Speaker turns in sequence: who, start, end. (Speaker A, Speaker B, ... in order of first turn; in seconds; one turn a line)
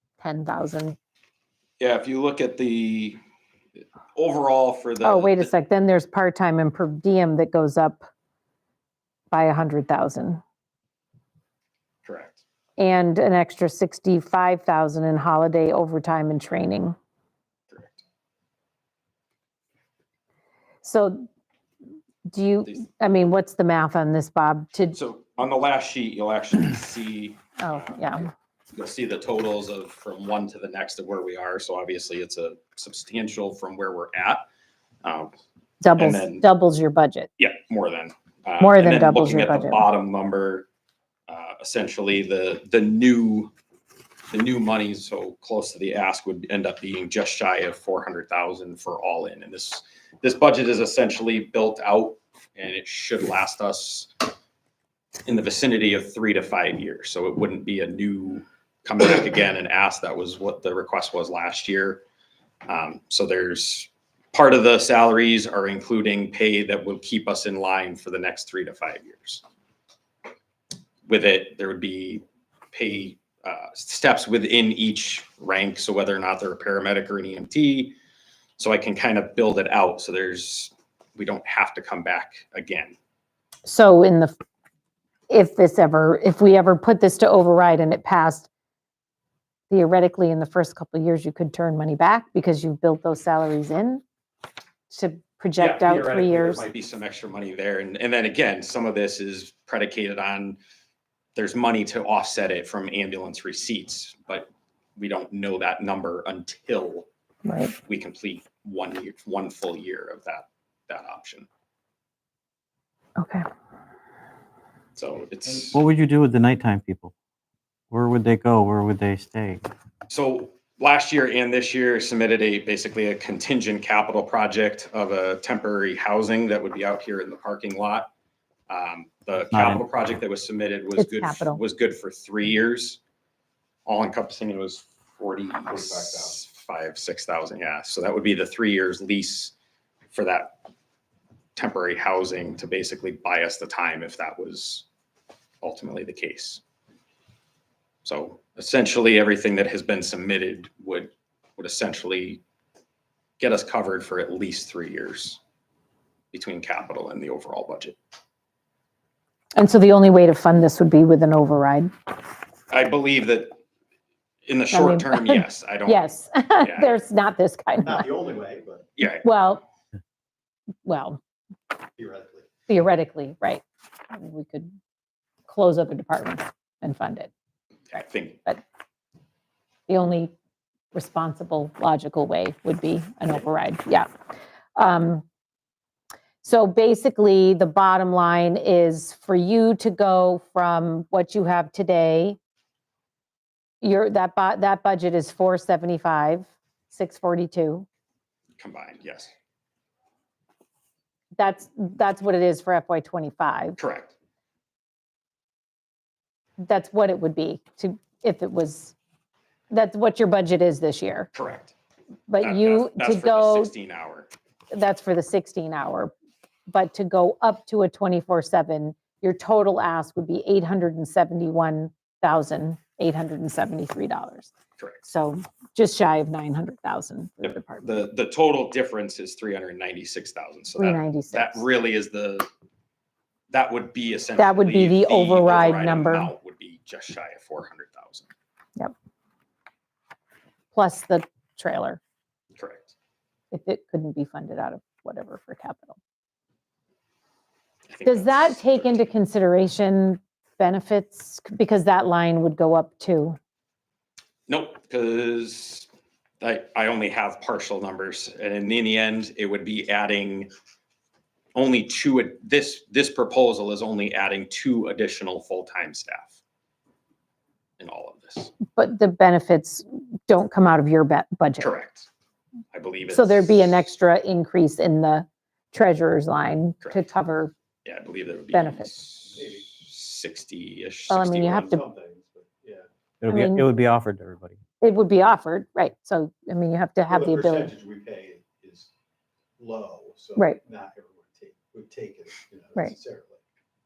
Speaker A: 0.2-0.9
Speaker B: 1.8-3.2
Speaker B: 4.1-5.5
Speaker A: 5.0-8.1
Speaker A: 9.3-10.4
Speaker B: 12.0-12.4
Speaker A: 12.8-16.9
Speaker B: 17.7-18.0
Speaker A: 20.8-21.3
Speaker A: 22.3-25.0
Speaker B: 24.9-28.1
Speaker A: 27.6-28.3
Speaker B: 28.7-34.4
Speaker B: 35.0-35.3
Speaker A: 35.8-37.3
Speaker B: 36.0-36.5
Speaker B: 37.4-40.7
Speaker A: 38.6-39.8
Speaker B: 41.3-43.5
Speaker B: 44.3-54.3
Speaker B: 55.2-62.0
Speaker B: 62.7-69.4
Speaker B: 71.1-78.0
Speaker B: 78.6-82.9
Speaker A: 83.6-84.3
Speaker A: 85.3-88.5
Speaker A: 89.7-94.0
Speaker A: 94.9-96.6
Speaker B: 95.6-100.6
Speaker B: 101.3-107.1
Speaker A: 107.4-107.7
Speaker B: 107.8-111.5
Speaker A: 113.2-113.5
Speaker B: 115.0-115.8
Speaker C: 115.7-117.1
Speaker C: 117.9-119.7
Speaker B: 120.1-128.1
Speaker B: 128.7-133.0
Speaker C: 129.5-129.8
Speaker A: 131.0-131.6
Speaker B: 133.8-139.5
Speaker D: 135.7-136.4
Speaker B: 140.1-140.6
Speaker B: 141.6-144.8
Speaker B: 145.6-146.6
Speaker B: 148.0-152.4
Speaker B: 153.4-155.4
Speaker B: 156.3-158.0
Speaker A: 159.6-161.9
Speaker B: 162.7-163.5
Speaker B: 164.4-166.1
Speaker A: 164.7-168.1
Speaker B: 166.6-166.9
Speaker D: 167.8-168.9
Speaker B: 169.0-169.2
Speaker A: 169.2-169.6
Speaker A: 170.8-171.2
Speaker D: 172.0-172.5
Speaker A: 172.7-174.8
Speaker A: 175.5-177.3
Speaker B: 177.9-178.4
Speaker A: 179.9-180.3
Speaker A: 180.9-184.1
Speaker A: 184.8-185.2
Speaker A: 186.4-192.4
Speaker A: 193.8-197.8
Speaker B: 198.6-199.3
Speaker A: 201.4-203.8
Speaker B: 203.8-204.1
Speaker A: 206.6-208.9
Speaker A: 209.7-211.3
Speaker B: 211.3-211.7
Speaker A: 212.3-213.7
Speaker B: 212.4-214.3
Speaker A: 214.7-216.1
Speaker A: 216.7-224.5
Speaker B: 224.8-225.1
Speaker A: 225.1-227.9
Speaker B: 227.4-232.5
Speaker A: 230.8-231.6
Speaker B: 233.5-238.3
Speaker A: 234.4-236.3
Speaker A: 240.7-242.0
Speaker B: 242.6-242.9
Speaker A: 243.5-246.0
Speaker B: 247.9-249.1
Speaker A: 248.0-253.4
Speaker B: 254.5-255.9
Speaker B: 256.4-260.5
Speaker B: 261.5-266.4
Speaker B: 267.8-268.6
Speaker A: 268.7-271.7
Speaker B: 271.6-272.1
Speaker B: 272.7-273.8
Speaker A: 273.1-277.5
Speaker B: 277.8-281.8
Speaker A: 278.5-278.9
Speaker D: 279.3-279.7
Speaker A: 281.1-281.8
Speaker D: 281.6-282.9
Speaker C: 283.2-284.6
Speaker A: 283.3-283.6
Speaker A: 284.8-287.7
Speaker D: 287.1-288.9
Speaker D: 289.6-293.4